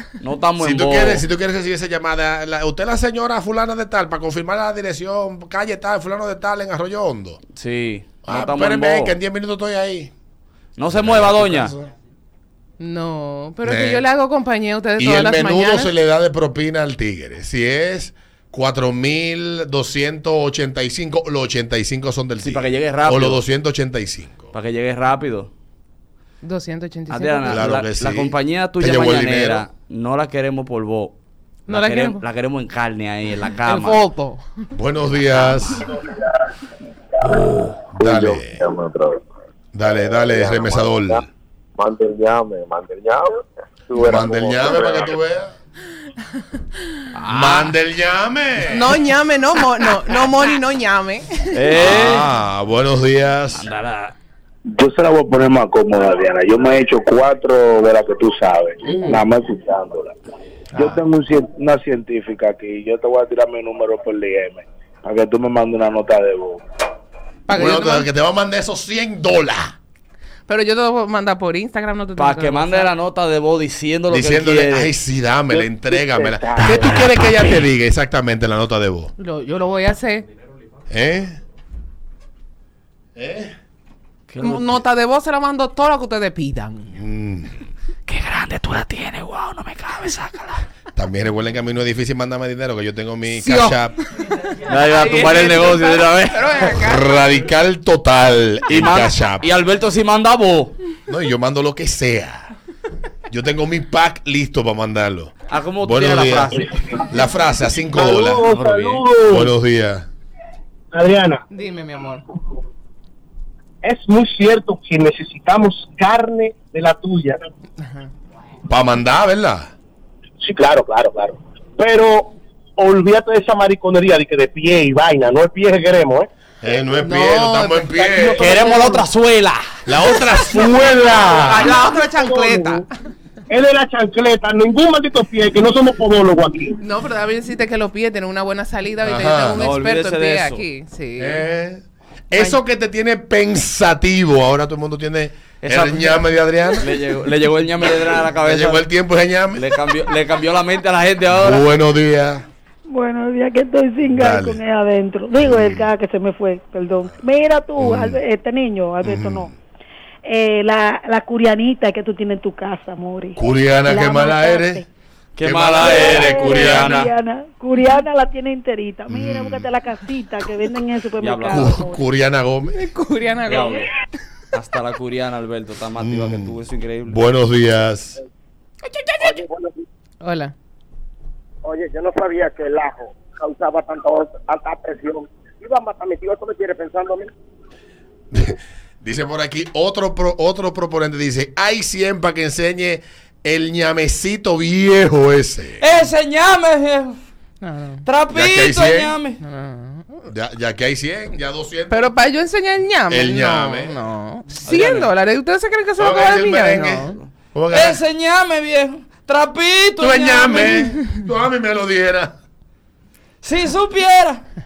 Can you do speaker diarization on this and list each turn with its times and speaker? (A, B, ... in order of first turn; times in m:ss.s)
0:00.2-0:01.2 A
0:00.6-0:07.4 B
0:07.5-0:09.2 A
0:08.2-0:10.1 B
0:10.8-0:11.7 A
0:10.9-0:11.9 B
0:12.8-0:15.9 C
0:13.6-0:14.0 B
0:15.0-0:24.5 B
0:22.4-0:23.4 A
0:24.5-0:25.5 A
0:26.4-0:27.6 C
0:27.1-0:31.2 A
0:27.5-0:29.6 B
0:31.7-0:32.2 C
0:31.7-0:34.0 A
0:33.6-0:34.4 C
0:34.7-0:35.8 B
0:35.3-0:35.9 A
0:37.9-0:38.6 B
0:38.0-0:39.1 D
0:39.7-0:41.3 B
0:41.9-0:42.1 E
0:42.2-0:43.2 D
0:43.9-0:45.1 E
0:44.0-0:45.5 B
0:47.1-0:47.8 A
0:47.3-0:49.0 B
0:48.7-0:51.9 C
0:51.5-0:52.3 A
0:51.8-0:53.7 B
0:53.5-0:54.2 A
0:54.7-1:00.1 F
0:58.8-0:59.2 C
1:00.7-1:01.0 C
1:00.7-1:06.6 F
1:07.5-1:08.1 C
1:07.5-1:09.7 B
1:10.5-1:12.9 C
1:12.2-1:14.9 A
1:14.1-1:19.1 B
1:15.5-1:17.1 E
1:19.2-1:20.2 C
1:20.9-1:21.4 B
1:23.2-1:23.5 B
1:24.3-1:24.8 A
1:24.4-1:26.9 C
1:26.9-1:27.5 B
1:28.1-1:30.6 A
1:30.9-1:33.9 B
1:33.3-1:33.8 C
1:34.6-1:36.7 A
1:34.9-1:37.1 C
1:36.7-1:39.5 B
1:38.7-1:40.8 A
1:41.1-1:42.5 B
1:43.3-1:48.5 B
1:45.5-1:46.8 A
1:47.9-1:49.5 E
1:48.5-1:49.0 A
1:49.3-1:50.1 B
1:50.9-1:51.4 E
1:51.5-1:52.2 C
1:53.8-1:57.5 E
1:57.8-1:58.1 C
1:58.7-1:59.7 B
2:00.4-2:06.3 E
2:06.6-2:08.5 B
2:07.0-2:09.0 C
2:08.0-2:08.9 E
2:08.4-2:09.6 A
2:09.8-2:11.7 B
2:10.7-2:12.8 E
2:11.4-2:12.9 C
2:13.5-2:16.8 E
2:16.8-2:21.4 C
2:19.0-2:19.6 B
2:19.6-2:20.6 A
2:21.2-2:27.0 B
2:22.3-2:22.6 C
2:25.6-2:28.9 A
2:28.4-2:29.6 B
2:29.5-2:31.7 A
2:31.3-2:32.4 B
2:32.9-2:39.5 G
2:34.0-2:34.6 B
2:35.3-2:35.9 B
2:37.7-2:38.2 B
2:39.0-2:39.5 B
2:40.3-2:44.8 G
2:43.4-2:44.8 B
2:45.4-2:47.1 A
2:45.4-2:47.1 B
2:45.8-2:52.0 G
2:49.1-2:49.7 B
2:51.2-2:51.8 A
2:51.5-2:52.9 B
2:52.7-2:53.9 C
2:53.5-2:53.9 A
2:54.5-2:57.2 A
2:56.0-2:58.2 B
2:59.2-2:59.8 E
3:00.2-3:00.5 C
3:01.6-3:07.3 E
3:08.3-3:15.8 B
3:15.8-3:17.2 A
3:17.6-3:18.0 C
3:18.0-3:19.4 A
3:18.3-3:19.2 B
3:19.4-3:20.2 C
3:20.2-3:22.1 B
3:21.9-3:27.2 C
3:23.1-3:24.1 B
3:24.6-3:25.1 A
3:26.0-3:28.0 B
3:27.7-3:30.9 A
3:30.0-3:32.3 B
3:33.4-3:34.4 A